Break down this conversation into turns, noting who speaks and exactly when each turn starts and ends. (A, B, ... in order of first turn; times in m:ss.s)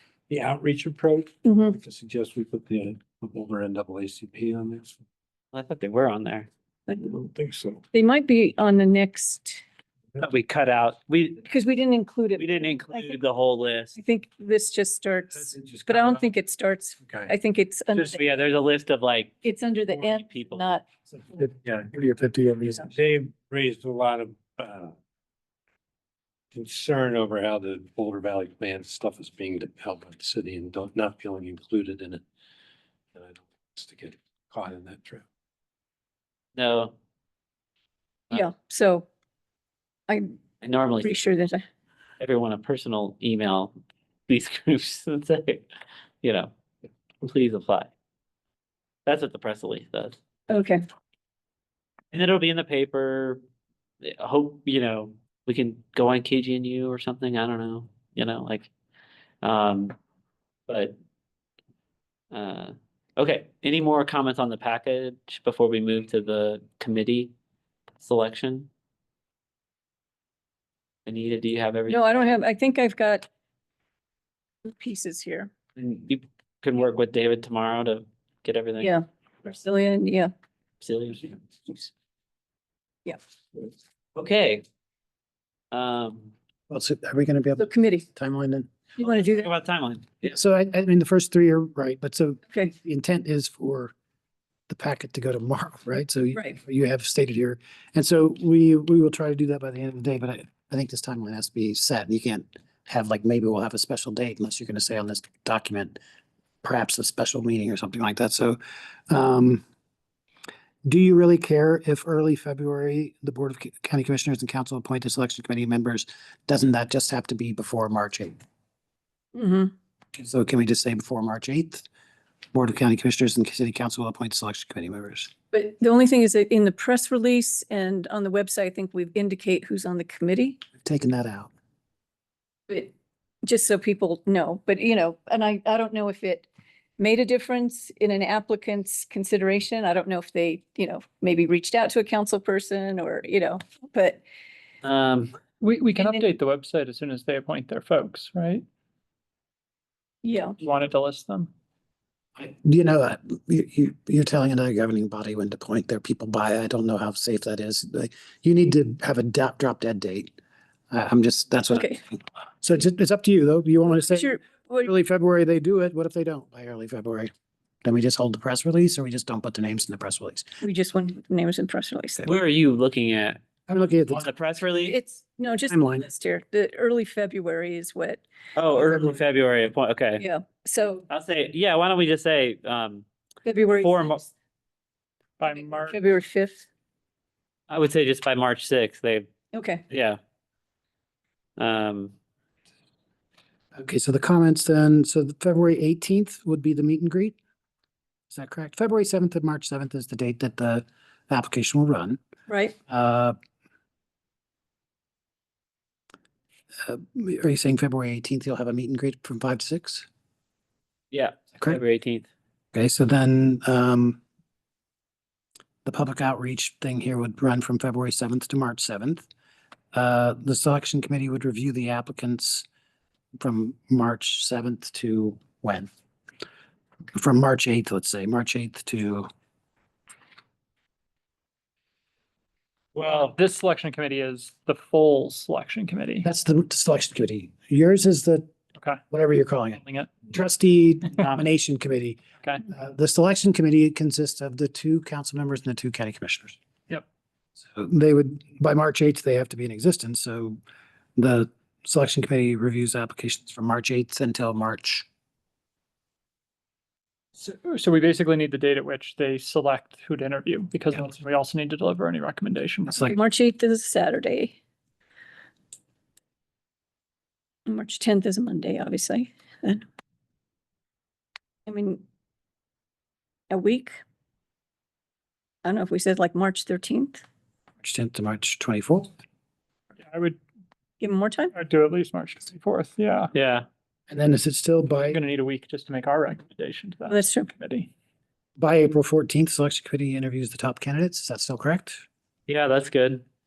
0:00.3-0:05.0 A
0:01.4-0:01.8 B
0:05.5-0:06.5 C
0:07.0-0:07.8 A
0:07.9-0:09.6 B
0:10.2-0:11.4 C
0:11.4-0:13.2 B
0:12.4-0:14.0 C
0:13.9-0:18.2 B
0:15.4-0:16.3 A
0:17.0-0:17.3 A
0:17.9-0:19.3 C
0:19.4-0:20.9 B
0:20.0-0:20.6 C
0:21.3-0:24.9 A
0:26.5-0:32.2 A
0:33.1-0:35.2 A
0:36.6-0:36.9 C
0:38.3-0:39.0 B
0:40.6-0:41.2 C
0:41.0-0:41.6 B
0:42.2-0:43.7 C
0:44.3-0:45.6 C
0:46.2-0:46.5 C
0:47.2-0:47.9 C
0:49.0-0:50.2 C
0:50.5-0:50.8 B
0:52.1-0:53.4 C
0:54.0-0:58.7 C
0:59.4-1:00.0 C
1:00.7-1:01.0 C
1:02.3-1:07.3 C
1:08.0-1:08.7 C
1:11.0-1:12.1 C
1:11.9-1:13.2 B
1:14.6-1:15.5 B
1:15.8-1:18.9 C
1:18.8-1:20.3 B
1:20.8-1:21.9 C
1:24.1-1:24.6 C
1:25.7-1:26.3 C
1:26.7-1:28.7 D
1:27.6-1:28.0 B
1:29.0-1:29.4 B
1:29.0-1:30.3 C
1:30.2-1:33.9 D
1:34.7-1:46.0 D
1:46.6-1:48.6 D
1:49.1-1:49.6 D
1:50.8-1:58.4 D
1:59.3-1:59.7 B
2:00.1-2:01.8 D
2:02.5-2:05.3 D
2:05.5-2:10.6 B
2:10.8-2:11.5 D
2:13.4-2:16.5 B
2:17.0-2:24.2 B
2:24.8-2:25.4 C
2:25.6-2:28.6 E
2:25.9-2:26.2 B
2:30.2-2:30.6 B
2:30.6-2:31.5 E
2:32.4-2:40.3 D
2:40.9-2:47.3 D
2:41.7-2:42.0 B
2:44.1-2:44.9 B
2:47.8-2:50.5 D
2:50.6-2:52.3 B
2:52.2-2:53.4 C
2:53.7-2:54.3 D
2:54.1-2:55.0 C
2:54.8-2:58.2 B
2:55.7-2:56.1 D
2:58.6-3:00.2 C
3:00.2-3:01.0 B
3:01.1-3:03.0 C
3:03.4-3:04.2 B
3:03.8-3:04.2 C
3:05.4-3:06.0 E
3:05.5-3:06.6 B
3:07.7-3:09.3 C
3:09.5-3:09.8 B
3:09.9-3:10.2 C
3:11.6-3:12.1 C
3:13.7-3:17.3 D
3:18.3-3:22.2 D
3:22.5-3:22.8 B
3:22.9-3:23.3 D
3:26.8-3:30.0 D
3:31.1-3:32.3 C
3:32.7-3:34.2 D
3:35.8-3:39.3 D
3:39.9-3:42.6 D
3:43.4-3:45.9 D
3:47.1-3:49.3 D
3:52.9-3:53.3 C
3:53.0-3:56.3 E
3:56.2-3:58.5 D
3:59.1-4:06.6 D
3:59.8-4:00.1 E
4:07.6-4:10.6 D
4:11.2-4:15.0 D
4:17.4-4:23.1 E
4:22.9-4:23.1 D
4:23.0-4:24.5 B
4:27.7-4:29.8 B
4:31.7-4:32.0 B
4:33.5-4:34.0 B
4:35.6-4:37.2 B
4:37.8-4:39.1 D
4:40.0-4:40.4 E
4:41.0-4:41.5 B
4:41.5-4:43.3 E
4:43.3-4:43.7 C
4:44.1-4:45.2 D
4:45.1-4:47.9 E
4:47.1-4:47.5 B
4:48.6-4:52.0 D
4:52.5-4:53.2 C